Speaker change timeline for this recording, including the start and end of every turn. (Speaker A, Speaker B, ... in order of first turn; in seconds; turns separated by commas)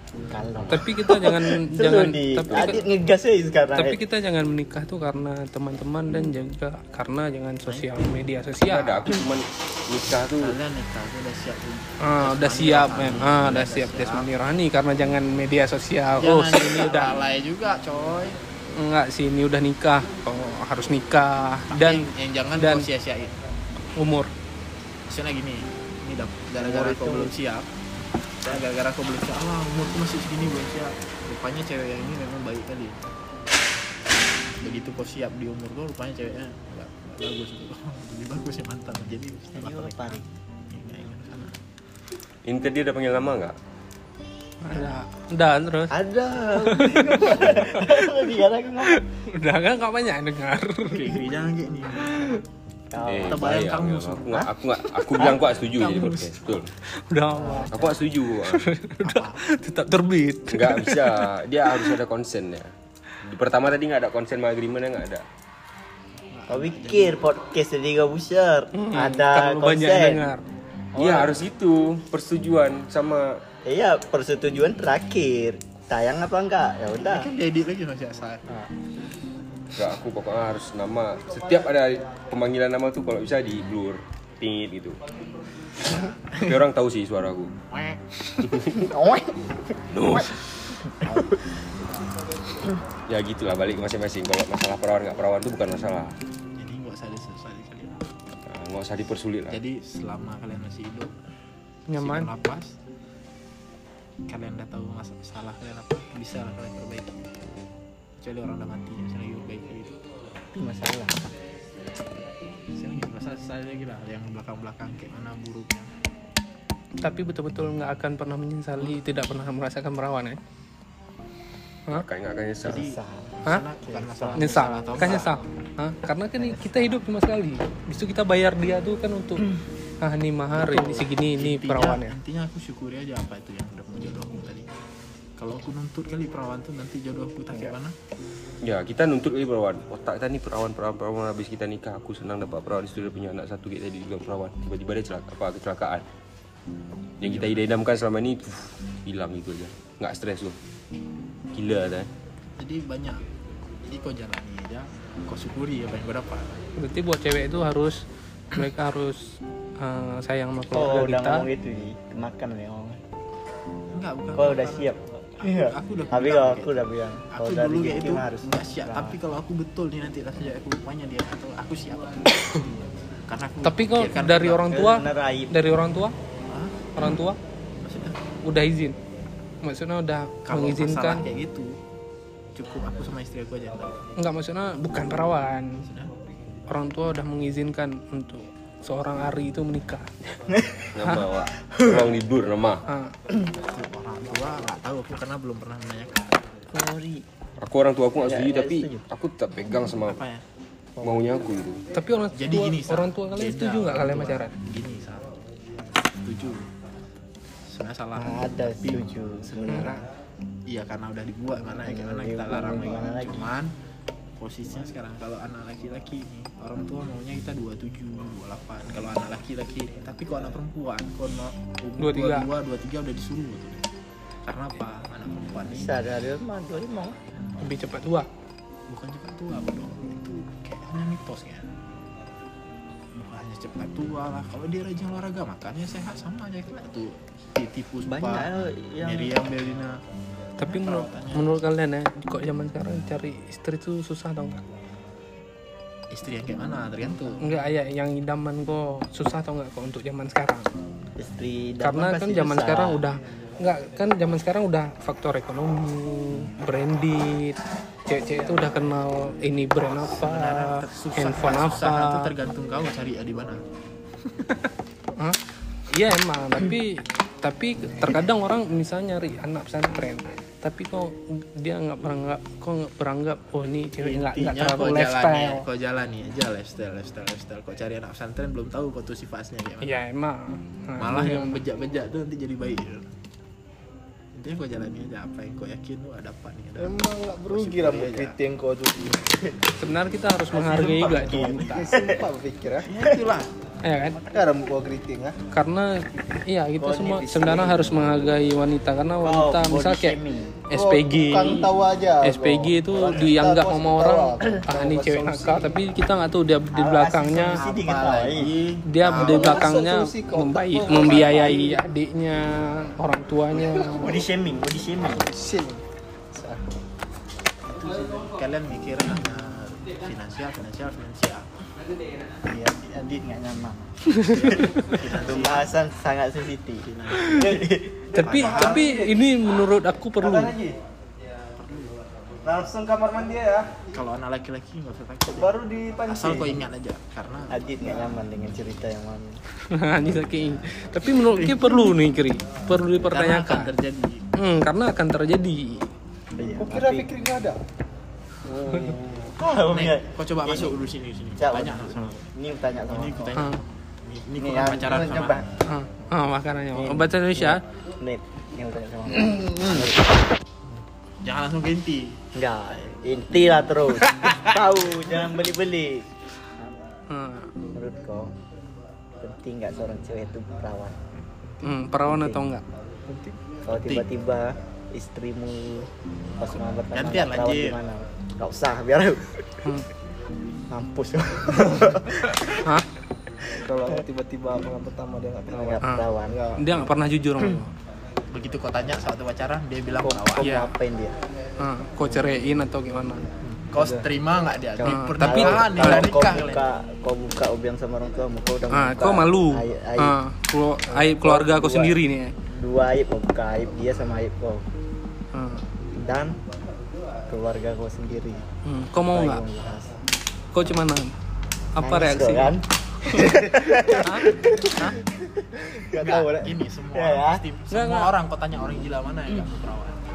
Speaker A: 0.2-4.0, Speaker B: 0.7-2.8, Speaker B: 3.7-9.1, Speaker C: 7.7-8.1, Speaker D: 8.7-10.6, Speaker C: 10.4-14.3, Speaker B: 12.0-17.1, Speaker C: 16.2-18.4, Speaker B: 18.7-22.9, Speaker C: 21.7-23.3, Speaker B: 24.0-24.3, Speaker C: 25.1-27.7, Speaker B: 26.6-27.3, Speaker C: 28.4-33.0, Speaker C: 34.6-41.6, Speaker A: 39.5-40.3, Speaker D: 42.5-43.5, Speaker B: 44.6-46.0, Speaker A: 45.9-49.0, Speaker B: 46.6-48.1, Speaker B: 48.9-51.2, Speaker C: 50.9-52.4, Speaker B: 52.1-52.3, Speaker A: 52.9-53.7, Speaker D: 53.0-56.7, Speaker C: 53.2-54.5, Speaker C: 55.1-56.4, Speaker B: 57.1-57.7, Speaker C: 57.4-57.9, Speaker D: 57.7-58.7, Speaker B: 58.4-61.9, Speaker C: 59.0-59.4, Speaker D: 60.5-62.7, Speaker D: 63.2-65.2, Speaker C: 66.3-67.2, Speaker A: 66.5-70.2, Speaker B: 68.7-70.4, Speaker D: 70.9-73.4, Speaker C: 71.0-71.4, Speaker A: 73.7-77.3, Speaker C: 77.0-78.6, Speaker D: 79.7-85.0, Speaker C: 85.9-86.5, Speaker D: 86.3-87.5, Speaker C: 87.7-88.0, Speaker D: 88.4-88.9, Speaker A: 88.7-90.3, Speaker D: 89.9-90.4, Speaker C: 91.0-91.3, Speaker D: 93.1-96.2, Speaker C: 96.5-98.0, Speaker D: 98.4-99.6, Speaker C: 99.5-101.1, Speaker B: 101.9-102.3, Speaker C: 102.0-102.8, Speaker C: 104.3-107.3, Speaker C: 108.2-109.9, Speaker A: 110.5-111.3, Speaker C: 112.7-115.9, Speaker B: 117.0-120.4, Speaker D: 121.9-122.9, Speaker A: 122.6-125.2, Speaker C: 122.6-125.3, Speaker B: 124.3-129.5, Speaker A: 126.4-127.0, Speaker B: 130.0-132.2, Speaker C: 130.5-134.7, Speaker C: 135.4-137.9, Speaker D: 138.6-146.1, Speaker D: 147.2-150.6, Speaker C: 147.2-147.6, Speaker D: 151.5-152.1, Speaker C: 152.6-153.2, Speaker C: 153.8-156.5, Speaker B: 156.8-161.5, Speaker A: 160.7-163.0, Speaker C: 163.9-166.8, Speaker A: 164.3-169.2, Speaker C: 167.3-174.7, Speaker B: 173.6-176.2, Speaker A: 174.7-175.5, Speaker C: 176.5-176.8, Speaker B: 176.9-177.4, Speaker C: 177.8-178.2, Speaker B: 178.4-179.0, Speaker B: 179.6-181.2, Speaker C: 180.4-181.8, Speaker C: 182.5-184.0, Speaker B: 184.2-185.8, Speaker C: 185.8-186.1, Speaker B: 186.7-190.1, Speaker A: 190.5-191.0, Speaker D: 190.9-192.8, Speaker A: 191.6-192.1, Speaker B: 192.9-193.1, Speaker C: 193.6-196.4, Speaker A: 196.7-197.2, Speaker D: 197.6-200.2, Speaker A: 198.1-199.0, Speaker C: 200.0-200.4, Speaker A: 201.0-201.4, Speaker D: 201.0-201.8, Speaker B: 201.9-204.5, Speaker C: 202.3-205.3, Speaker C: 206.2-206.6, Speaker C: 207.7-210.0, Speaker A: 208.2-210.0, Speaker C: 210.7-213.7, Speaker A: 211.8-213.5, Speaker C: 214.4-223.9, Speaker B: 222.0-222.5, Speaker C: 224.4-225.9, Speaker A: 225.7-227.2, Speaker B: 227.6-228.3, Speaker C: 228.9-231.7, Speaker C: 233.1-240.0, Speaker A: 238.1-239.4, Speaker B: 240.6-244.6, Speaker C: 240.6-241.6, Speaker C: 246.1-247.5, Speaker B: 247.4-250.7, Speaker A: 251.2-253.0, Speaker B: 251.8-262.3, Speaker C: 260.0-263.6, Speaker B: 265.9-275.6, Speaker C: 274.0-280.0, Speaker B: 279.8-281.6, Speaker C: 281.0-283.1, Speaker C: 284.3-288.4, Speaker E: 286.8-289.3, Speaker B: 289.8-291.8, Speaker C: 290.5-291.9, Speaker A: 291.1-292.2, Speaker E: 291.3-292.9, Speaker C: 292.9-293.5, Speaker B: 293.8-294.2, Speaker E: 294.2-295.4, Speaker B: 295.5-300.2, Speaker A: 296.8-298.1, Speaker A: 299.2-300.6, Speaker B: 300.7-301.7, Speaker E: 300.7-305.8, Speaker B: 302.2-307.6, Speaker A: 306.7-309.2, Speaker C: 307.5-309.2, Speaker B: 308.8-314.2, Speaker E: 309.1-311.8, Speaker A: 313.8-315.2, Speaker E: 315.2-316.6, Speaker C: 317.6-321.5, Speaker A: 322.4-328.1, Speaker C: 324.3-325.7, Speaker C: 326.9-327.6, Speaker B: 328.1-330.5, Speaker C: 328.2-328.9, Speaker E: 328.3-329.2, Speaker E: 330.2-330.8, Speaker C: 331.6-331.9, Speaker E: 332.4-333.7, Speaker C: 333.9-335.5, Speaker E: 335.3-336.6, Speaker C: 336.1-337.6, Speaker A: 337.5-339.4, Speaker B: 339.7-343.7, Speaker C: 341.4-341.8, Speaker C: 343.0-344.2, Speaker B: 344.4-345.9, Speaker A: 346.4-347.1, Speaker E: 346.6-347.6, Speaker A: 348.4-350.8, Speaker C: 349.6-352.3, Speaker A: 351.4-353.4, Speaker C: 352.9-355.4, Speaker E: 354.4-355.4, Speaker B: 355.6-357.6, Speaker A: 356.7-360.1, Speaker C: 361.2-362.2, Speaker A: 362.3-366.8, Speaker C: 364.0-364.6, Speaker B: 367.1-367.5, Speaker A: 367.7-368.3, Speaker A: 369.2-371.0, Speaker E: 371.4-371.7, Speaker B: 371.6-372.6, Speaker A: 372.1-372.4, Speaker E: 373.1-373.4, Speaker A: 373.6-379.7, Speaker C: 376.9-377.8, Speaker A: 380.7-382.6, Speaker E: 383.5-386.7, Speaker A: 385.5-386.4, Speaker B: 386.6-387.7, Speaker C: 388.3-390.6, Speaker A: 390.0-391.2, Speaker B: 390.4-390.7, Speaker B: 391.6-393.2, Speaker C: 393.7-396.6, Speaker E: 393.8-394.0, Speaker A: 394.8-400.2, Speaker B: 394.9-395.6, Speaker B: 398.7-402.3, Speaker A: 401.2-401.9, Speaker A: 402.5-404.7, Speaker B: 405.3-405.6, Speaker A: 405.9-406.4, Speaker A: 407.3-408.4, Speaker B: 408.6-409.4, Speaker A: 409.1-409.9, Speaker B: 410.5-411.1, Speaker B: 411.8-412.6, Speaker A: 411.8-414.9, Speaker E: 413.1-414.0, Speaker B: 413.9-414.3, Speaker A: 415.9-416.3, Speaker C: 416.0-420.0, Speaker E: 416.0-416.5, Speaker A: 416.9-417.4, Speaker B: 417.7-418.1